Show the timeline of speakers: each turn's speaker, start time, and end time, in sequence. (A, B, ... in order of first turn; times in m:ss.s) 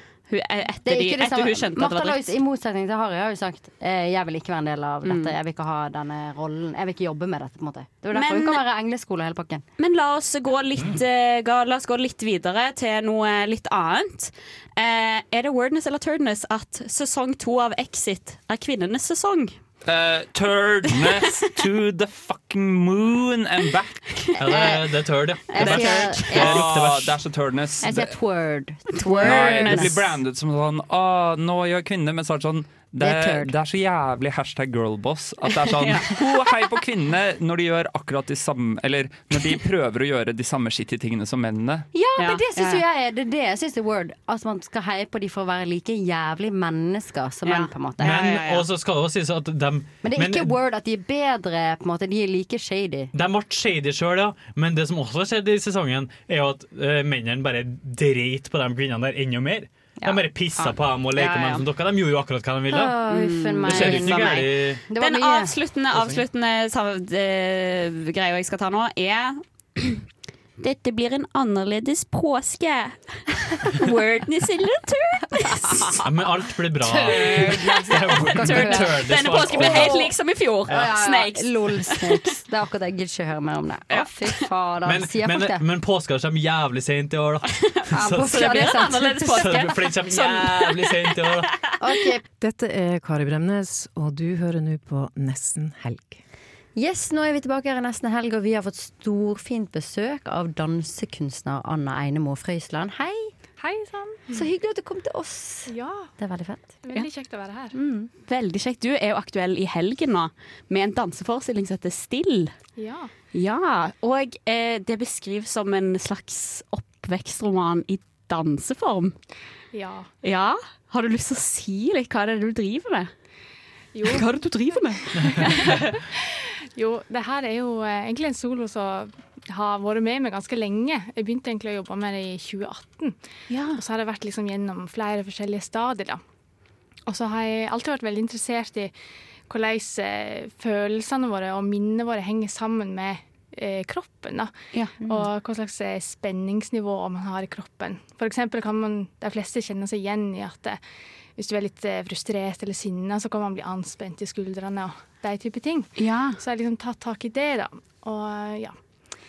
0:00.3-0:02.3 A
0:00.8-0:09.6 B
0:05.0-0:05.3 A
0:08.1-0:08.6 A
0:09.8-0:19.5 A
0:19.8-0:24.4 C
0:24.4-0:27.2 D
0:24.5-0:24.8 B
0:25.5-0:26.7 B
0:25.6-0:28.1 C
0:27.8-0:30.0 B
0:29.0-0:30.0 A
0:29.2-0:41.9 C
0:33.0-0:33.5 B
0:35.7-0:36.5 A
0:41.9-0:48.3 B
0:42.2-0:42.8 A
0:47.4-0:48.7 A
0:48.0-0:50.6 D
0:50.0-0:53.1 B
0:53.1-1:03.0 D
1:00.0-1:00.7 B
1:01.1-1:01.7 A
1:02.7-1:05.6 B
1:03.1-1:10.0 A
1:03.6-1:04.8 D
1:05.9-1:06.2 D
1:10.6-1:16.0 A
1:16.0-1:20.0 D
1:16.8-1:20.1 B
1:17.0-1:17.6 A
1:18.1-1:22.2 A
1:20.7-1:25.6 B
1:23.9-1:24.4 A
1:24.8-1:31.5 D
1:27.9-1:29.4 B
1:28.1-1:31.4 A
1:31.8-1:32.2 B
1:32.4-1:36.2 E
1:36.8-1:43.3 B
1:43.6-1:44.5 F
1:44.3-1:46.8 B
1:45.7-1:46.1 F
1:46.8-1:47.8 F
1:47.8-1:52.5 A
1:52.8-1:53.1 F
1:53.3-1:59.2 A
1:59.7-2:00.1 F
2:00.2-2:03.1 A
2:03.9-2:13.2 F
2:04.0-2:06.0 A
2:13.5-2:13.8 A
2:13.7-2:16.2 F
2:17.1-2:18.9 F
2:19.5-2:30.8 F
2:24.7-2:25.0 A
2:31.4-2:38.8 F
2:36.0-2:36.4 A